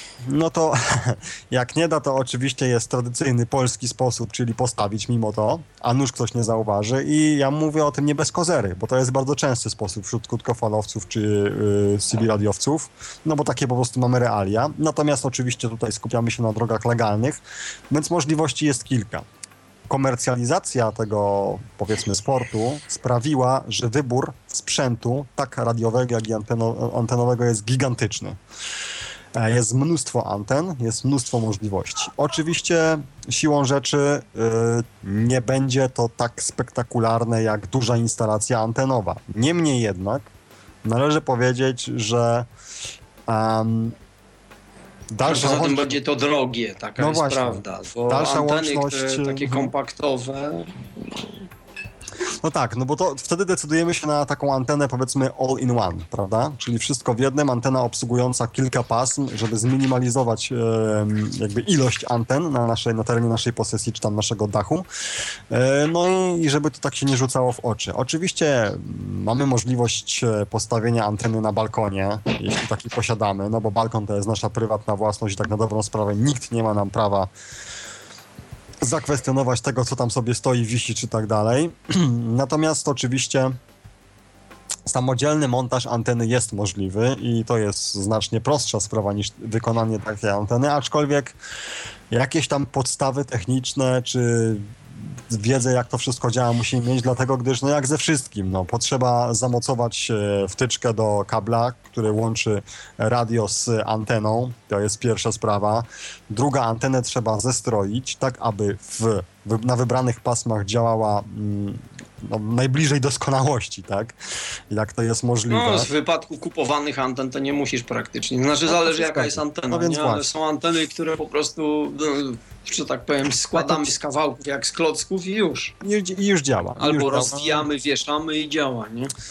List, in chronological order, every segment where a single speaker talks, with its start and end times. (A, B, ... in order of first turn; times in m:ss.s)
0:00.3-0:19.2 A
0:19.9-0:28.4 A
0:29.4-0:40.3 A
0:40.8-0:42.5 A
0:43.3-0:44.0 A
0:45.1-0:46.0 A
0:45.2-0:51.2 B
0:47.0-0:49.7 A
0:52.4-1:04.9 A
1:05.5-1:17.3 A
1:18.8-1:23.5 A
1:24.9-1:31.4 A
1:32.1-1:54.2 A
1:54.7-1:55.9 A
1:55.5-2:05.7 B
1:58.7-2:00.3 A
2:03.6-2:03.9 A
2:05.8-2:07.7 A
2:06.8-2:09.1 B